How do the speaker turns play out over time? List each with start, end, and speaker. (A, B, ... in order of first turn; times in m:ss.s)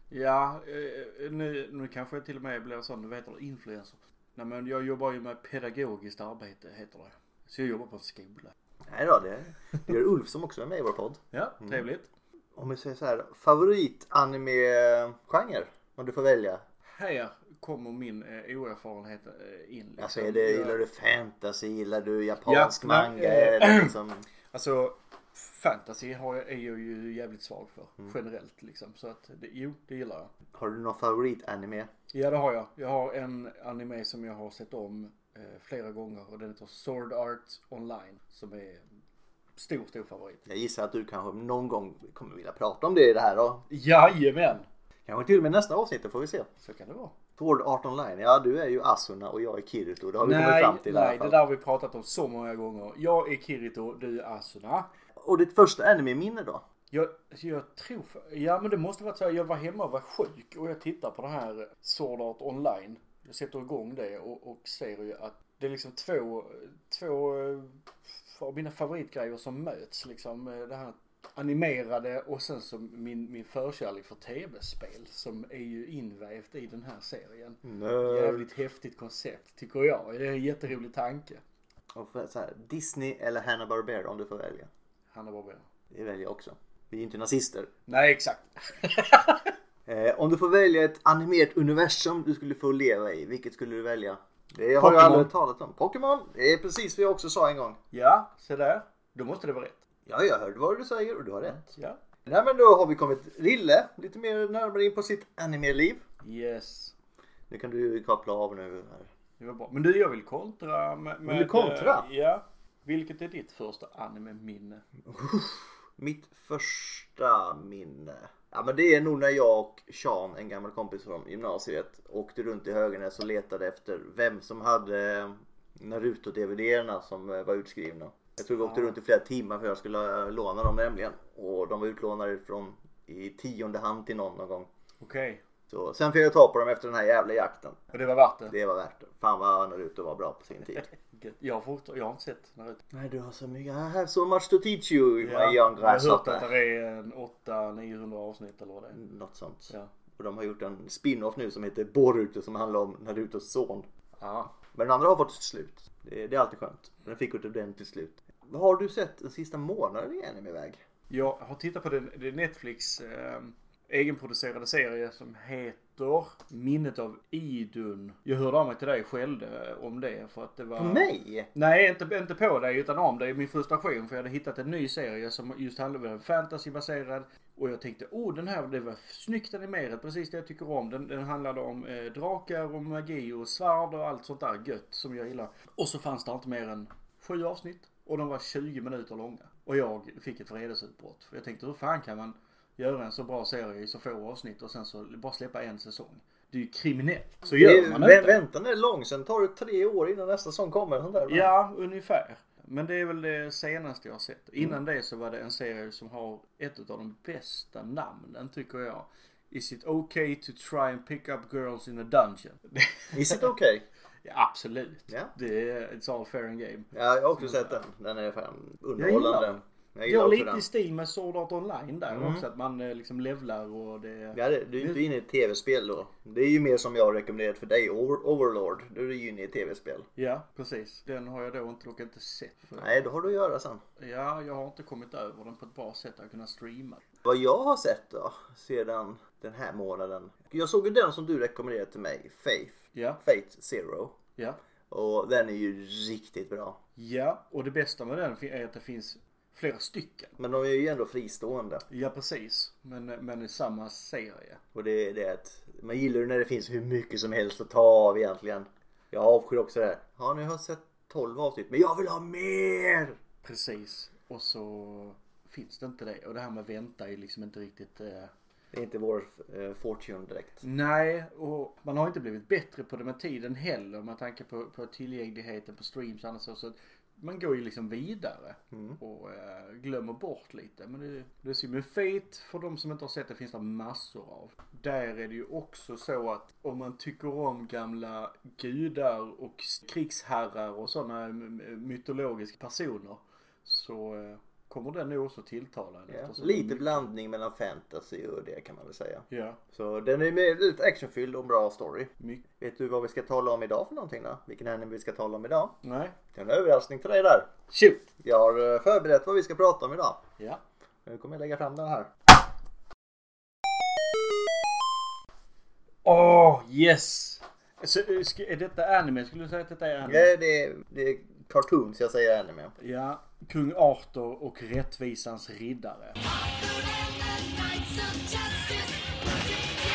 0:00.1-0:08.5 A
0:08.9-0:11.8 B
0:11.3-0:12.1 A
0:12.6-0:16.6 B
0:16.9-0:20.8 A
0:20.0-0:24.2 B
0:22.5-0:23.9 A
0:24.5-0:30.3 A
0:30.5-0:31.9 B
0:32.1-0:38.8 A
0:39.6-0:40.4 A
0:40.5-0:43.6 B
0:43.7-0:44.6 A
0:45.0-0:46.5 B
0:46.6-0:47.1 A
0:47.4-0:51.4 B
0:50.2-0:54.9 A
0:55.2-0:56.6 B
0:56.9-1:21.4 A
1:17.6-1:18.4 B
1:21.9-1:24.7 B
1:25.1-1:25.6 A
1:25.9-1:27.7 B
1:27.9-1:29.5 A
1:29.8-1:37.8 B
1:34.8-1:35.3 A
1:37.9-1:39.8 A
1:40.1-1:41.7 B
1:42.2-1:46.0 B
1:46.2-1:46.9 A
1:47.5-1:49.1 B
1:49.4-1:54.8 A
1:51.2-1:52.1 B
1:55.0-2:14.7 B
2:08.6-2:08.9 A
2:15.0-2:15.4 A
2:15.7-2:17.9 B
2:17.9-2:18.5 A
2:18.5-2:20.9 B
2:20.9-2:22.8 A
2:22.9-2:26.5 B
2:25.2-2:29.0 A
2:28.9-2:33.9 B
2:34.2-2:34.5 A
2:34.7-2:40.8 B
2:41.1-3:18.4 A
2:50.8-2:51.5 B
3:17.5-3:21.5 B
3:21.2-3:33.5 A
3:33.1-3:33.8 B
3:34.2-3:37.8 A
3:36.9-3:40.6 B
3:39.0-3:45.0 A
3:42.1-3:42.4 B
3:44.3-3:50.1 B
3:50.2-3:53.1 A
3:52.8-3:53.8 B
3:54.0-3:57.0 A
3:57.2-4:04.1 B
4:02.9-4:03.2 A
4:04.9-4:06.8 B
4:07.0-4:10.3 A
4:10.4-4:11.8 B
4:11.9-4:14.6 A
4:14.7-4:23.2 B
4:23.4-4:28.3 A
4:28.7-4:30.6 B
4:30.6-4:57.0 A
4:38.7-4:39.0 B
4:56.1-5:05.8 B
4:59.3-4:59.6 A
5:05.8-5:06.2 A
5:06.3-5:07.5 B
5:07.7-5:08.0 A
5:08.2-5:10.2 B
5:11.0-5:12.1 B
5:16.0-5:20.3 A
5:20.0-5:22.7 B
5:22.8-5:26.2 A